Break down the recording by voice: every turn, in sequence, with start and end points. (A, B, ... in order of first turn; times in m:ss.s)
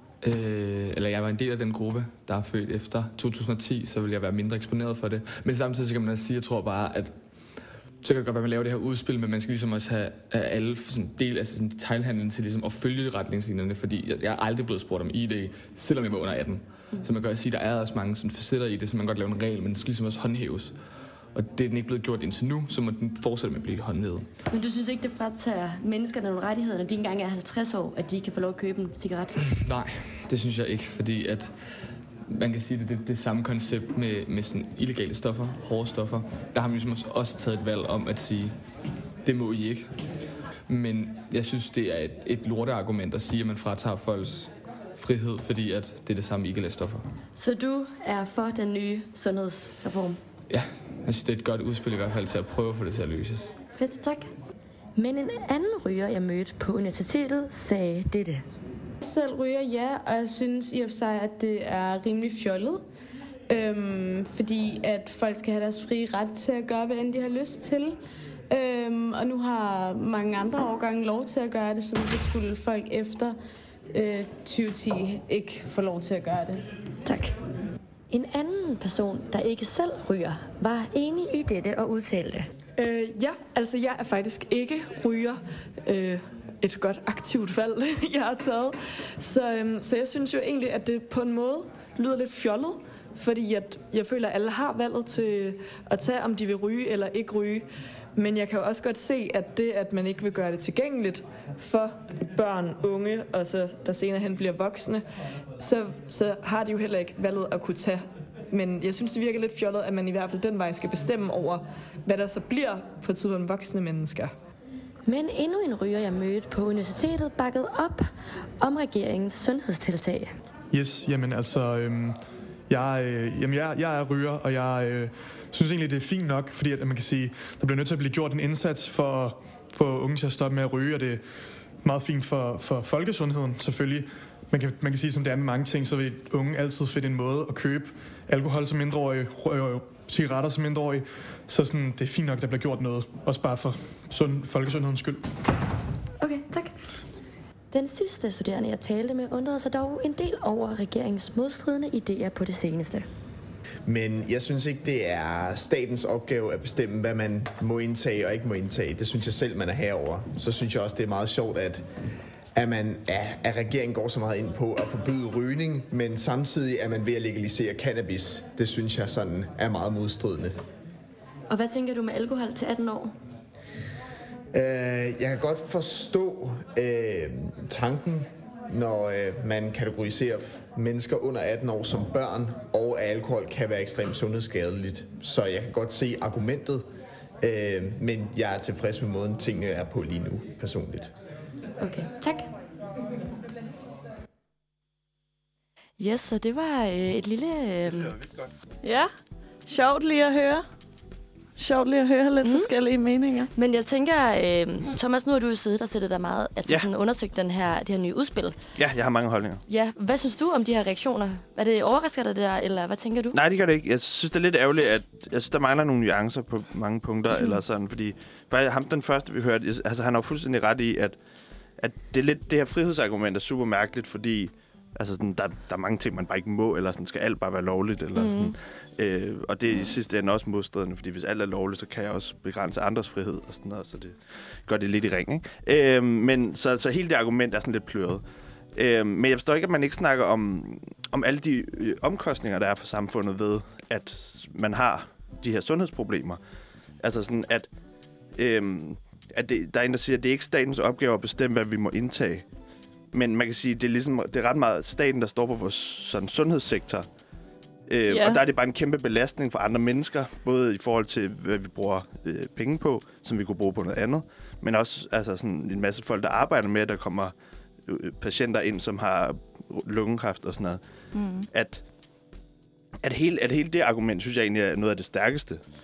0:00.2-0:20.8 A
0:21.3-0:24.3 A
0:24.5-0:29.5 B
0:29.5-0:47.1 A
0:47.4-0:50.2 B
0:50.5-0:53.6 A
0:53.8-0:54.3 B
0:55.0-0:58.4 B
0:59.0-1:02.8 C
1:03.5-1:08.0 C
1:08.5-1:13.4 C
1:13.9-1:16.7 C
1:17.0-1:17.4 B
1:18.1-1:22.5 B
1:22.8-1:45.0 D
1:45.6-1:54.3 D
1:55.0-1:58.1 B
1:58.6-2:00.3 B
2:00.7-2:11.3 E
2:11.8-2:25.3 E
2:26.2-2:26.9 B
2:27.7-2:33.1 B
2:33.9-2:41.8 F
2:42.5-2:50.6 F
2:51.5-2:53.1 B
2:54.5-3:06.8 F
3:07.4-3:11.1 F
3:11.8-3:12.5 B
3:16.0-3:18.2 B
3:18.8-3:19.1 G
3:19.6-3:20.6 G
3:21.6-3:23.5 G
3:22.4-3:22.7 B
3:23.5-3:28.6 B
3:28.8-3:29.6 H
3:29.7-3:33.4 B
3:33.3-3:41.2 H
3:41.8-3:58.2 H
3:48.1-3:48.5 B
3:58.7-4:06.4 H
4:07.0-4:07.7 H
4:08.3-4:12.4 H
4:13.1-4:17.1 H
4:17.9-4:27.3 H
4:18.1-4:18.4 G
4:27.8-4:30.8 H
4:31.1-4:31.5 G
4:31.5-4:31.8 H
4:33.0-4:35.6 H